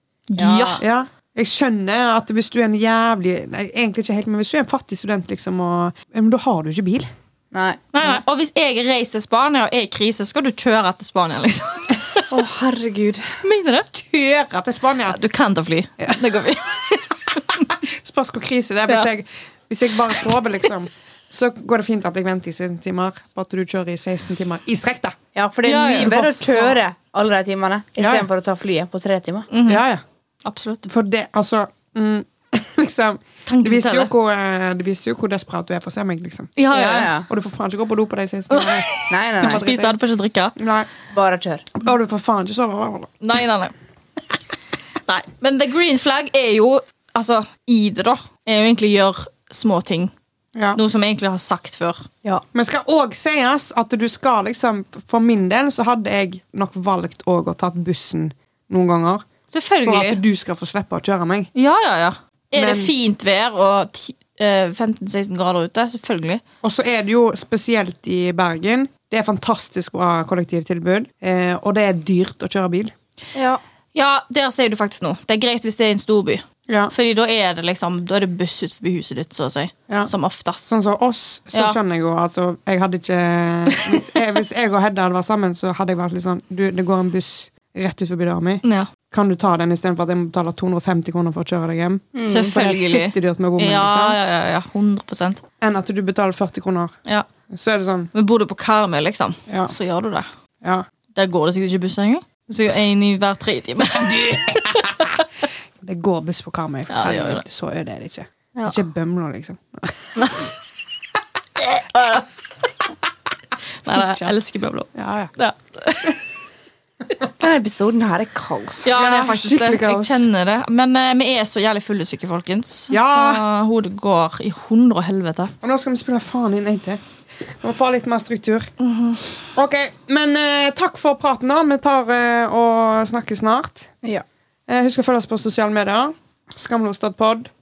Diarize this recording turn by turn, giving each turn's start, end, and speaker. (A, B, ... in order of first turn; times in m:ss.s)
0:00.3-0:00.8 A
0:00.4-0:00.8 B
0:00.8-0:07.1 C
0:07.5-0:08.2 B
0:07.9-0:12.3 A
0:12.3-0:13.4 B
0:13.4-0:13.9 A
0:14.0-0:15.2 C
0:15.1-0:17.7 A
0:17.8-0:25.2 C
0:25.4-0:29.5 B
0:25.6-0:26.5 A
0:28.0-0:28.3 C
0:29.5-0:29.8 A
0:29.7-0:30.0 C
0:30.4-0:30.9 A
0:30.9-0:36.6 C
0:33.5-0:34.1 A
0:36.6-0:37.1 A
0:36.7-0:37.3 B
0:37.3-0:38.9 C
0:38.5-0:40.5 A
0:39.1-0:39.7 B
0:39.4-0:40.0 C
0:40.6-0:40.9 C
0:41.1-0:41.7 B
0:41.8-0:43.2 C
0:43.2-0:43.7 A
0:45.0-0:50.1 A
0:50.6-0:50.8 C
0:50.8-0:52.1 A
0:52.5-0:59.3 C
0:59.5-1:00.2 A
0:59.8-1:01.5 C
1:01.6-1:06.4 A
1:02.6-1:02.9 C
1:06.6-1:13.0 C
1:13.3-1:13.6 B
1:14.0-1:20.7 A
1:16.7-1:16.9 C
1:20.7-1:34.2 C
1:23.7-1:24.1 A
1:28.6-1:28.9 A
1:32.1-1:32.6 B
1:32.2-1:35.4 A
1:35.6-1:37.0 C
1:37.5-1:38.1 C
1:38.1-1:40.3 A
1:39.5-1:39.7 C
1:41.2-1:45.2 A
1:44.0-1:45.1 C
1:45.8-1:50.4 C
1:46.9-1:47.4 A
1:48.6-1:48.8 A
1:50.2-1:50.5 A
1:52.0-1:52.2 A
1:53.8-1:56.2 A
1:53.9-1:54.3 C
1:55.0-1:55.3 C
1:57.4-1:59.0 B
1:58.8-2:05.5 A
1:58.9-2:00.3 C
2:02.9-2:03.4 C
2:05.6-2:08.7 C
2:09.6-2:13.9 C
2:14.7-2:17.5 C